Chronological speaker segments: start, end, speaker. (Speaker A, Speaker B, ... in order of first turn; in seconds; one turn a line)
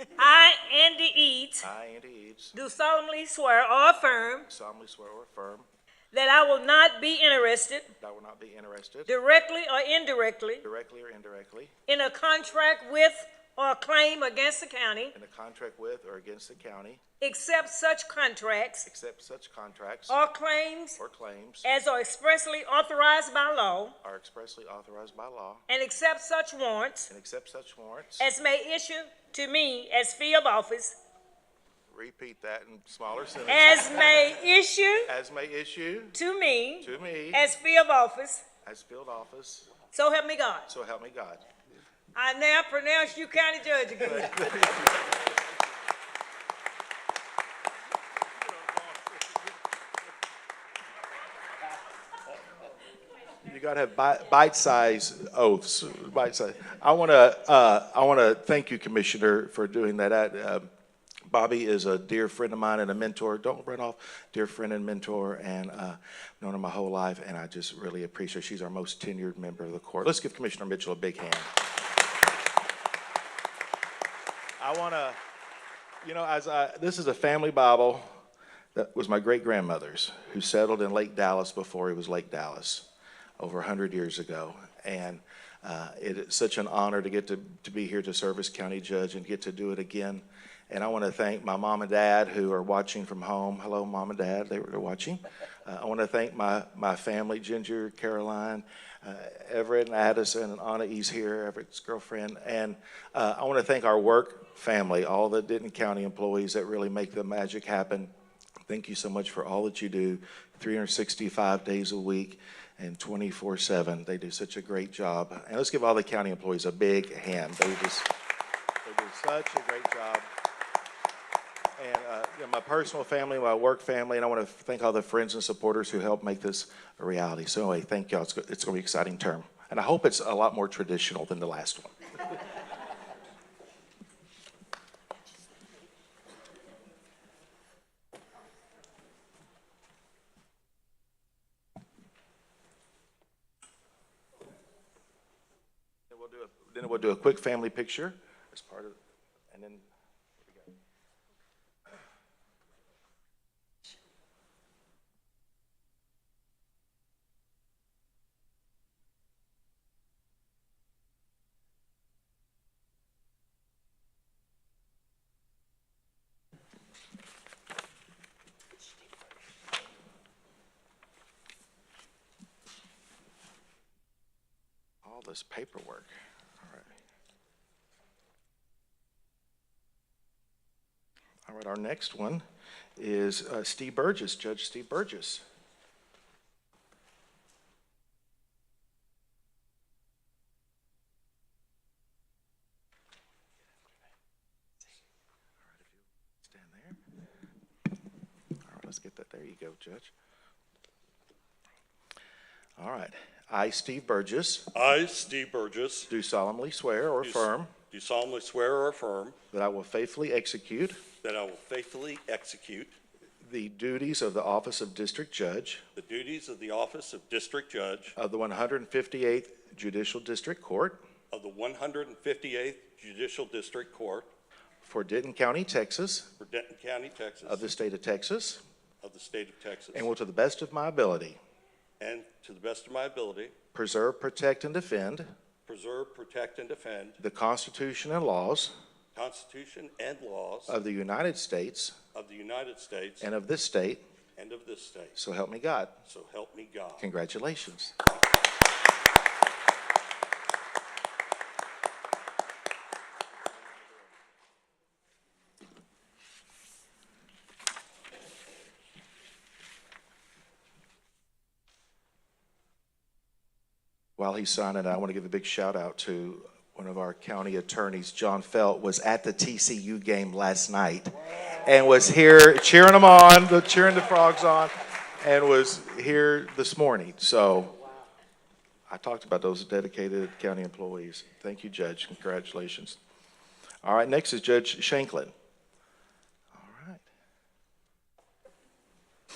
Speaker A: 0.2-1.7
Speaker B: 1.6-2.5
Speaker A: 2.5-4.5
Speaker B: 4.5-5.7
Speaker A: 6.1-7.9
Speaker B: 7.9-9.1
Speaker A: 9.1-10.7
Speaker B: 10.6-11.7
Speaker A: 11.9-15.2
Speaker B: 15.2-17.0
Speaker A: 17.2-18.9
Speaker B: 18.9-20.2
Speaker A: 20.1-21.0
Speaker B: 21.0-21.7
Speaker A: 21.6-24.0
Speaker B: 24.0-25.6
Speaker A: 25.7-27.1
Speaker B: 27.1-28.3
Speaker A: 28.2-31.0
Speaker B: 31.9-34.1
Speaker A: 33.5-35.1
Speaker B: 35.1-36.2
Speaker A: 36.1-38.4
Speaker B: 36.8-37.5
Speaker B: 38.6-39.7
Speaker A: 39.9-40.7
Speaker B: 40.7-41.4
Speaker A: 42.1-44.6
Speaker B: 44.0-44.9
Speaker B: 53.4-60.7
Speaker B: 61.3-71.5
Speaker B: 74.6-75.2
Speaker B: 76.0-78.1
Speaker B: 78.8-82.9
Speaker B: 83.4-108.1
Speaker B: 108.7-118.1
Speaker B: 118.8-120.3
Speaker B: 121.8-131.9
Speaker B: 146.1-149.0
Speaker B: 149.5-149.8
Speaker B: 150.4-150.7
Speaker B: 175.0-177.0
Speaker B: 181.5-182.4
Speaker B: 183.0-185.4
Speaker B: 195.6-197.0
Speaker B: 198.6-200.1
Speaker B: 202.8-204.7
Speaker C: 204.7-206.1
Speaker B: 206.1-207.7
Speaker C: 207.2-209.4
Speaker B: 209.5-211.0
Speaker C: 211.2-213.0
Speaker B: 213.4-215.8
Speaker C: 216.0-218.2
Speaker B: 218.2-221.0
Speaker C: 221.3-224.3
Speaker B: 224.8-226.3
Speaker C: 226.4-227.7
Speaker B: 227.5-228.6
Speaker C: 229.0-230.1
Speaker B: 229.9-231.4
Speaker C: 232.0-233.6
Speaker B: 233.7-235.3
Speaker C: 235.7-237.2
Speaker B: 237.2-238.7
Speaker C: 239.2-240.8
Speaker B: 240.7-241.9
Speaker C: 242.1-243.3
Speaker B: 243.2-244.0
Speaker C: 244.4-245.2
Speaker B: 245.2-246.0
Speaker C: 246.1-247.1
Speaker B: 247.0-247.9
Speaker B: 264.2-277.8
Speaker B: 278.9-283.0
Speaker B: 283.8-285.3
Speaker B: 286.5-287.1